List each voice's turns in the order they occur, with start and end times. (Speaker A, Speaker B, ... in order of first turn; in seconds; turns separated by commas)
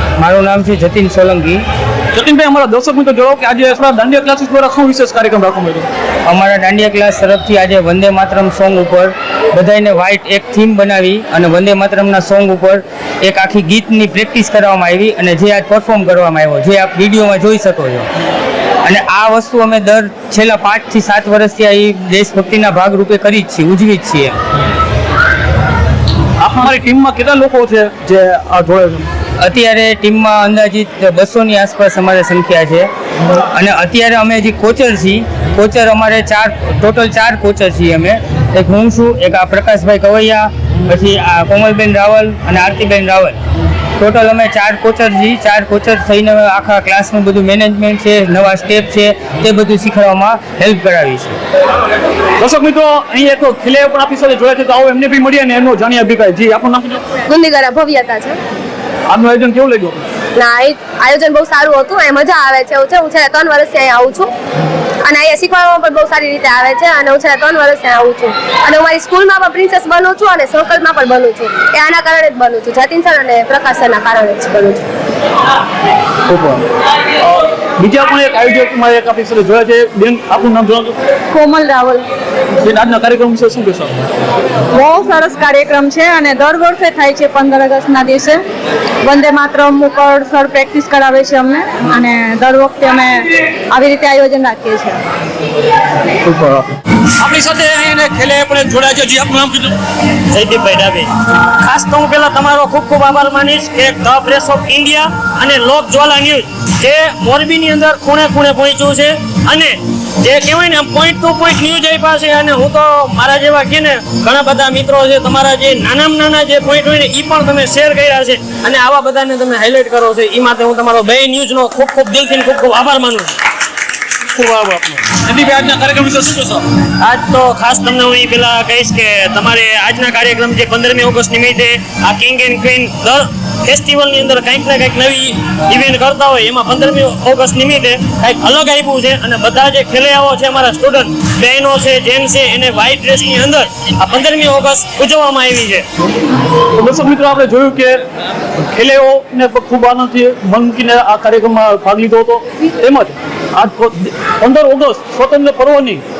Speaker A: 0.2-1.6, Speaker B: 2.1-5.9, Speaker A: 6.3-18.1, Speaker A: 18.8-24.4, Speaker B: 26.4-29.1, Speaker A: 29.4-43.4, Speaker A: 44.0-51.4, Speaker B: 52.4-57.0, Speaker C: 57.3-58.4, Speaker B: 59.1-60.0, Speaker C: 60.4-64.3, Speaker C: 65.0-74.9, Speaker B: 76.2-76.6, Speaker B: 77.2-80.9, Speaker D: 81.3-82.0, Speaker B: 82.6-84.0, Speaker D: 84.7-88.4, Speaker D: 89.0-95.0, Speaker B: 96.2-99.7, Speaker E: 100.3-101.1, Speaker E: 101.6-123.3, Speaker E: 124.3-145.8, Speaker B: 125.2-126.0, Speaker B: 146.7-148.0, Speaker B: 148.5-156.0